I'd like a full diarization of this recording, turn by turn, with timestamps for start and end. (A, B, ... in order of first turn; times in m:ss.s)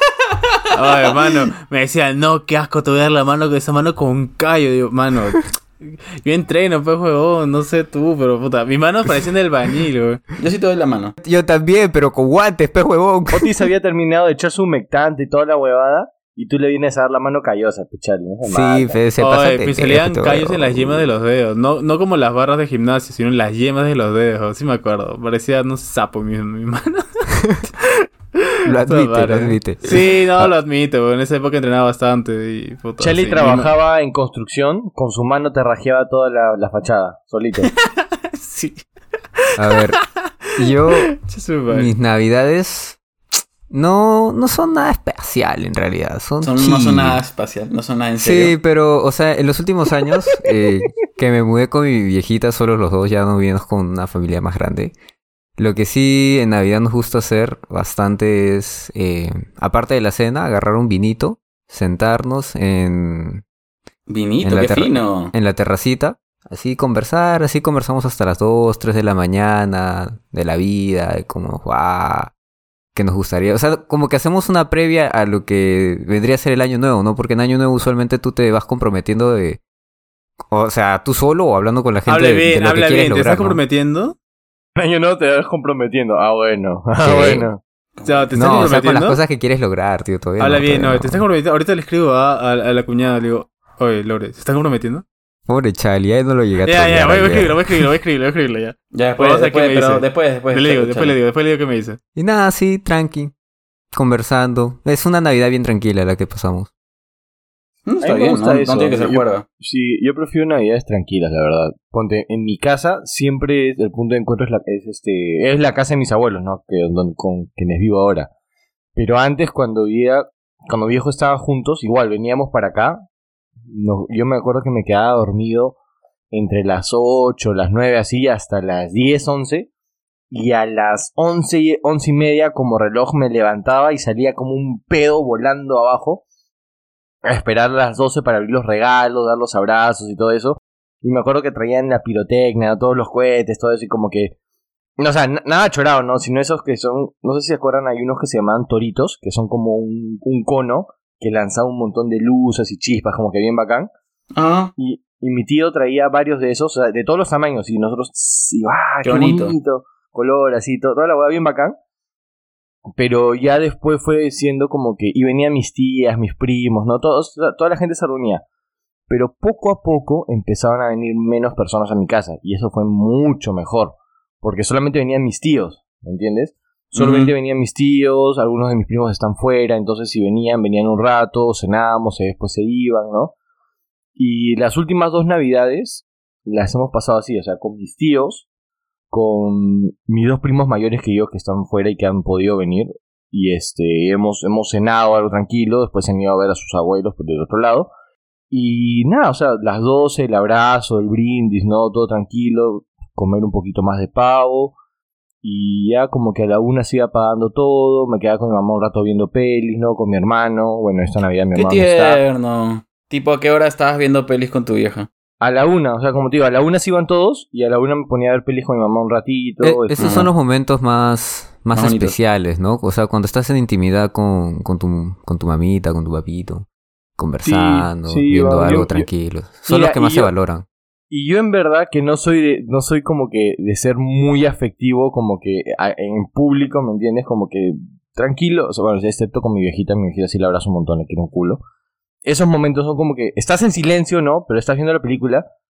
0:00.3-0:00.6 A
0:00.7-0:10.2 B
0:10.4-0:11.1 A
0:11.2-0:13.5 C
0:13.3-0:19.0 D
0:18.5-0:21.1 C
0:19.2-0:27.2 B
0:27.8-0:33.7 B
0:28.6-0:30.5 C
0:33.0-0:37.7 D
0:38.0-0:38.8 B
0:39.4-0:40.0 B
0:39.6-0:40.0 C
0:40.5-0:41.9 B
0:40.6-0:41.1 C
0:41.7-0:43.0 C
0:43.7-0:47.2 C
0:46.4-0:48.5 A
0:48.2-0:54.9 C
0:55.6-1:03.4 C
1:04.1-1:05.3 A
1:04.4-1:12.3 C
1:12.9-1:19.6 C
1:20.5-1:23.6 C
1:22.1-1:24.2 B
1:24.7-1:27.6 D
1:27.0-1:27.5 C
1:28.0-1:28.7 A
1:28.0-1:29.2 B
1:28.3-1:31.2 C
1:30.4-1:35.0 B
1:35.5-1:37.9 C
1:36.6-1:42.0 B
1:38.9-1:41.2 A
1:42.2-1:43.3 C
1:43.9-1:46.7 C
1:47.8-1:49.4 A
1:48.0-1:58.3 D
1:59.0-2:03.0 D
2:03.7-2:05.8 D
2:06.3-2:09.7 D
2:10.3-2:16.2 D
2:17.2-2:24.3 D
2:25.0-2:33.9 D
2:34.3-2:34.7 A
2:34.8-2:41.8 D
2:39.0-2:39.6 A
2:43.0-2:48.4 D
2:49.1-3:03.3 D
2:56.9-2:57.3 A
3:04.2-3:08.4 D
3:09.1-3:17.9 D
3:18.5-3:24.7 D
3:25.4-3:32.2 D
3:31.5-3:35.1 A
3:35.4-3:40.1 D
3:39.6-3:46.6 C
3:40.0-3:40.3 A
3:41.7-3:42.1 A
3:47.2-3:50.6 C
3:47.4-3:49.0 D
3:49.7-3:50.3 D
3:51.1-4:01.6 D
4:02.2-4:05.4 D